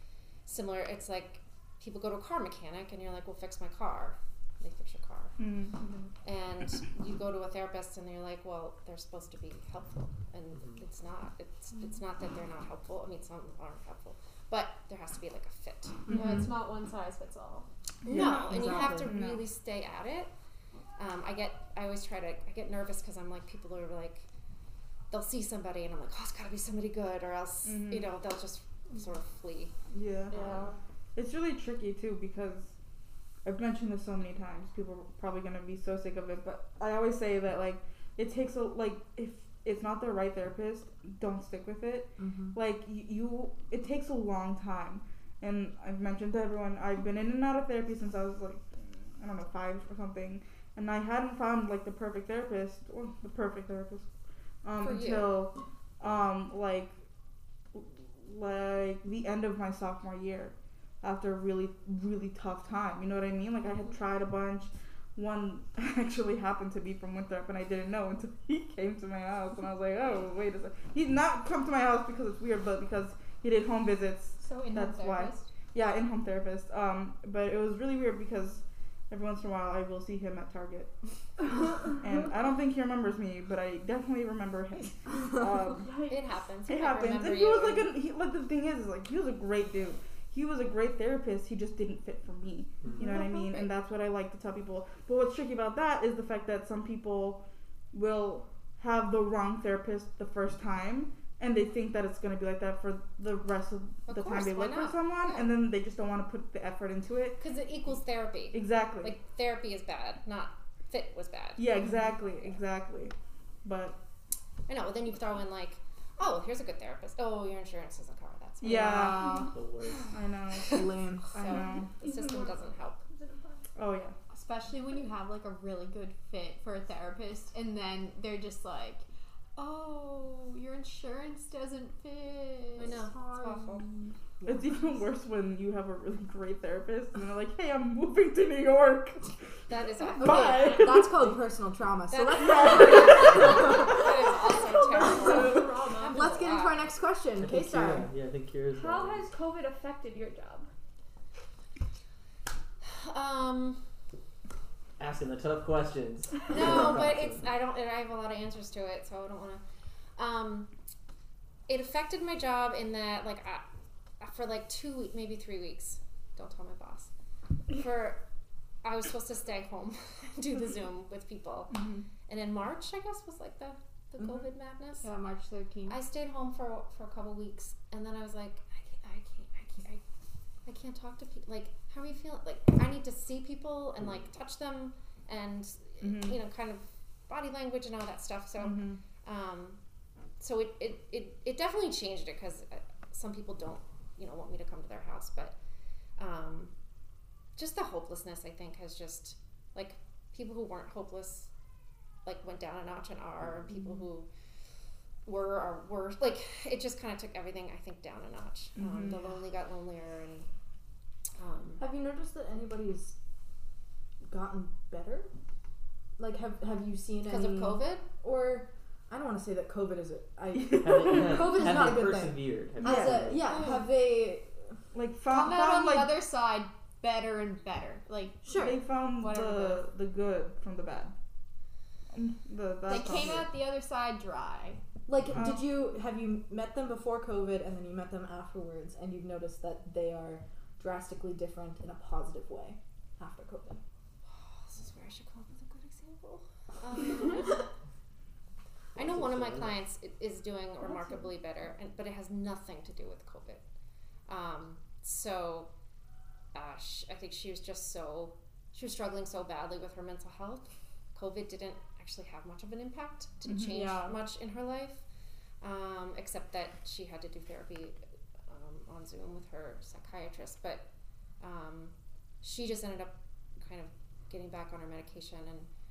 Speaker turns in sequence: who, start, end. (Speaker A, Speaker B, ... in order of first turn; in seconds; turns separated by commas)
Speaker A: 0.5-5.4, Speaker B: 5.4-5.8, Speaker A: 6.2-16.1, Speaker C: 10.6-10.8, Speaker B: 16.1-16.5, Speaker D: 16.1-17.7, Speaker B: 18.1-19.4, Speaker A: 18.1-20.3, Speaker E: 18.1-19.1, Speaker A: 21.0-24.3, Speaker A: 25.1-29.7, Speaker B: 27.6-28.1, Speaker B: 29.9-30.5, Speaker D: 30.3-30.7, Speaker B: 31.1-32.8, Speaker B: 33.5-54.1, Speaker E: 42.2-42.6, Speaker B: 54.6-57.0, Speaker A: 54.8-55.4, Speaker B: 57.7-85.9, Speaker D: 74.4-75.5, Speaker F: 85.8-86.2, Speaker A: 86.1-87.9, Speaker B: 86.7-107.4, Speaker F: 93.0-93.7, Speaker A: 104.1-105.5, Speaker A: 107.4-111.7, Speaker B: 108.5-109.1, Speaker B: 111.6-113.1, Speaker B: 113.6-114.0, Speaker A: 114.7-119.4, Speaker B: 118.6-119.4, Speaker D: 118.7-119.3, Speaker F: 119.2-119.5, Speaker C: 119.5-120.1, Speaker B: 120.1-121.9, Speaker A: 120.5-123.0, Speaker E: 120.7-121.8, Speaker F: 122.0-123.6, Speaker B: 123.8-124.2, Speaker D: 124.3-129.0, Speaker D: 129.6-133.0, Speaker A: 132.8-133.9, Speaker E: 134.4-134.7, Speaker B: 134.5-139.3, Speaker A: 139.7-140.9, Speaker B: 140.2-141.2, Speaker E: 140.2-144.0, Speaker F: 140.2-141.0, Speaker A: 142.1-146.8, Speaker B: 142.4-143.6, Speaker F: 144.0-146.3, Speaker E: 145.2-148.1, Speaker C: 147.4-149.3, Speaker F: 148.7-150.7, Speaker A: 152.8-153.9, Speaker C: 155.0-157.5, Speaker A: 156.5-159.6, Speaker A: 160.2-160.7, Speaker A: 161.7-163.6, Speaker A: 164.2-167.1, Speaker A: 167.7-168.2, Speaker A: 168.8-175.1, Speaker B: 171.7-172.1, Speaker D: 175.0-176.0, Speaker A: 175.9-180.0, Speaker A: 180.7-189.8, Speaker B: 186.0-186.4, Speaker B: 188.6-189.0, Speaker A: 190.4-195.6, Speaker A: 196.2-196.7, Speaker A: 197.6-201.5, Speaker A: 202.2-204.3, Speaker A: 205.2-210.5, Speaker B: 208.8-209.2, Speaker A: 211.4-211.8, Speaker E: 211.8-213.2, Speaker E: 214.3-215.3, Speaker E: 216.2-224.7, Speaker A: 217.2-218.1, Speaker B: 220.6-221.6, Speaker C: 220.7-223.5, Speaker B: 222.8-223.4, Speaker A: 223.5-223.8, Speaker B: 224.9-226.1, Speaker D: 225.3-229.8, Speaker E: 228.4-228.8, Speaker B: 228.5-231.1, Speaker B: 232.1-233.5, Speaker D: 232.9-234.8, Speaker E: 233.1-233.4, Speaker E: 235.1-243.8, Speaker B: 235.3-235.7, Speaker A: 244.3-247.6, Speaker C: 248.9-249.7, Speaker A: 249.0-253.6, Speaker A: 254.3-255.7, Speaker A: 256.5-265.1, Speaker B: 263.5-263.8, Speaker D: 263.7-264.2, Speaker A: 265.6-270.9, Speaker A: 271.4-275.7